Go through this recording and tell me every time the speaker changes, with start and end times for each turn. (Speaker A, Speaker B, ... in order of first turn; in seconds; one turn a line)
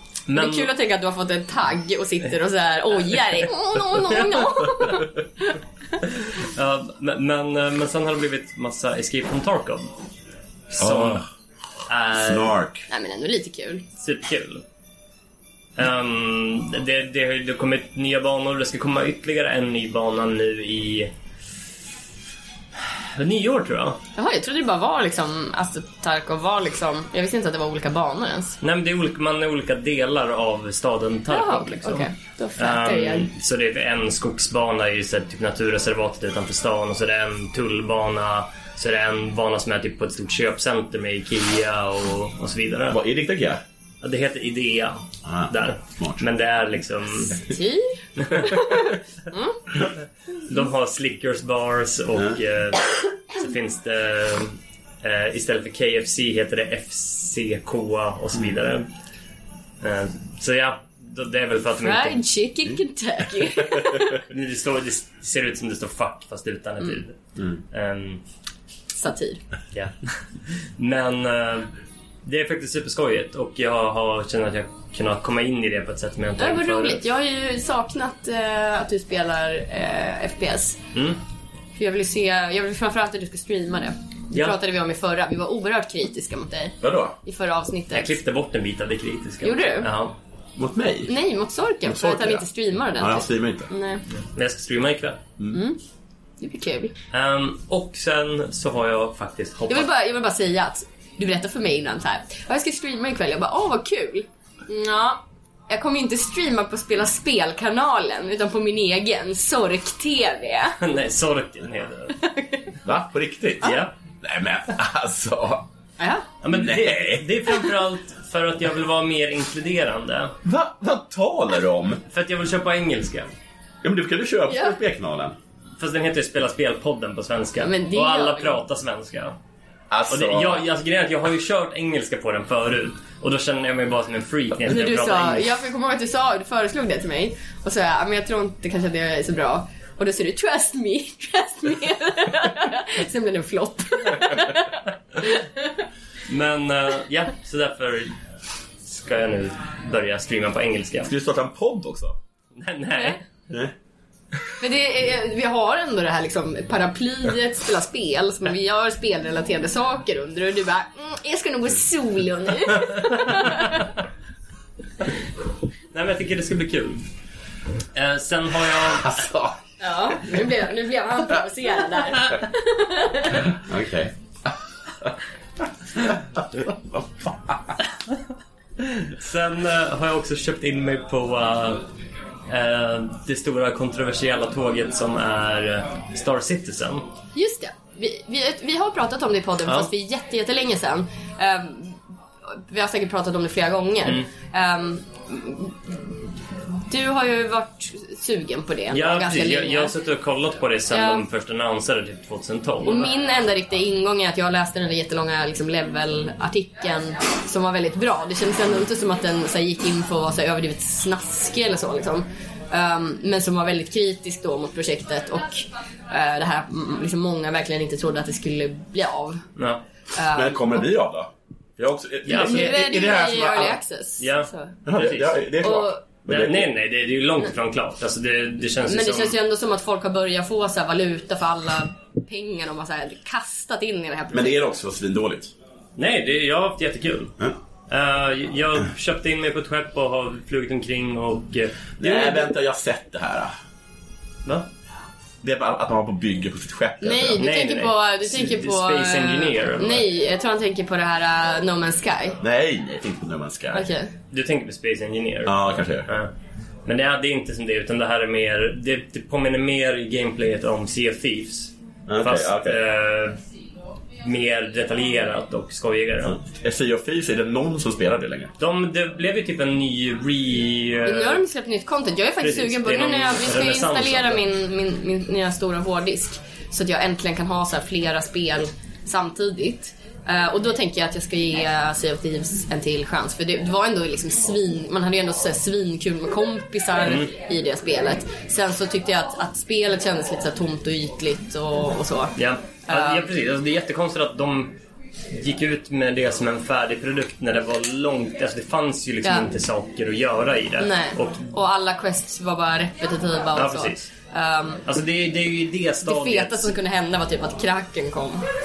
Speaker A: 0.3-0.7
Speaker B: 0.3-5.1
Speaker A: 6.0-9.9
Speaker A: 10.7-11.2
Speaker C: 10.8-11.2
Speaker A: 11.9-12.5
Speaker C: 12.2-12.9
Speaker B: 12.9-13.8
Speaker A: 14.0-14.6
Speaker A: 15.8-21.1
Speaker A: 22.9-24.0
Speaker B: 24.1-28.6
Speaker A: 28.6-43.0
Speaker B: 31.3-33.3
Speaker C: 42.9-43.6
Speaker A: 44.0-47.4
Speaker C: 45.2-46.2
Speaker B: 47.4-49.6
Speaker A: 48.2-48.8
Speaker A: 50.5-58.9
Speaker A: 59.8-62.2
Speaker B: 61.8-64.2
Speaker A: 64.3-67.2
Speaker A: 67.7-68.2
Speaker B: 68.9-69.4
Speaker A: 69.7-70.1
Speaker A: 70.6-71.7
Speaker A: 72.2-77.0
Speaker B: 76.4-80.8
Speaker A: 80.9-81.2
Speaker B: 81.8-88.2
Speaker C: 86.8-87.2
Speaker A: 87.9-90.1
Speaker B: 89.4-89.9
Speaker C: 90.6-91.1
Speaker B: 91.1-94.0
Speaker C: 91.8-92.4
Speaker C: 93.0-93.7
Speaker A: 94.2-95.2
Speaker B: 95.5-95.8
Speaker B: 96.4-96.9
Speaker A: 97.1-99.9
Speaker B: 99.7-110.8
Speaker A: 110.8-112.2
Speaker B: 112.2-112.7
Speaker C: 112.8-115.7
Speaker A: 113.6-113.9
Speaker B: 116.0-116.3
Speaker A: 116.4-120.3
Speaker C: 116.5-117.6
Speaker C: 120.4-122.0
Speaker A: 122.1-123.3
Speaker C: 123.8-125.3
Speaker B: 124.5-124.8
Speaker A: 125.8-129.3
Speaker B: 127.6-128.6
Speaker C: 129.9-130.6
Speaker A: 130.1-135.5
Speaker B: 134.7-145.7
Speaker A: 146.3-148.2
Speaker A: 148.8-151.1
Speaker C: 151.0-152.2
Speaker A: 152.6-153.2
Speaker B: 154.6-163.9
Speaker A: 165.9-167.0
Speaker A: 167.9-169.2
Speaker C: 169.0-169.6
Speaker B: 169.8-173.4
Speaker C: 173.5-175.1
Speaker C: 175.9-177.7
Speaker A: 178.8-181.8
Speaker A: 182.5-187.0
Speaker B: 187.3-192.0
Speaker B: 192.6-196.1
Speaker B: 196.9-199.9
Speaker A: 198.9-203.1
Speaker B: 200.9-201.2
Speaker B: 202.8-219.4
Speaker B: 220.1-220.9
Speaker C: 220.3-223.8
Speaker A: 222.2-222.8
Speaker B: 222.3-224.8
Speaker A: 224.2-225.4
Speaker C: 224.8-226.7
Speaker B: 225.6-226.0
Speaker A: 226.3-229.3
Speaker B: 228.8-234.6
Speaker C: 234.3-235.5
Speaker A: 236.0-237.3
Speaker A: 237.9-242.5
Speaker C: 242.0-243.5
Speaker C: 245.4-247.4
Speaker B: 247.0-252.4
Speaker A: 247.4-250.1
Speaker C: 252.4-253.8
Speaker B: 253.7-254.1
Speaker A: 254.3-256.3
Speaker C: 255.4-256.1
Speaker A: 256.9-263.4
Speaker C: 262.1-262.8
Speaker A: 264.2-266.4
Speaker C: 266.4-268.5
Speaker A: 268.6-271.4
Speaker B: 271.1-292.3
Speaker A: 272.4-274.4
Speaker A: 287.0-287.3
Speaker A: 292.4-294.8
Speaker B: 292.9-293.3
Speaker A: 295.3-301.5
Speaker B: 300.8-304.8
Speaker A: 303.5-304.1
Speaker A: 304.9-306.7
Speaker B: 306.0-308.4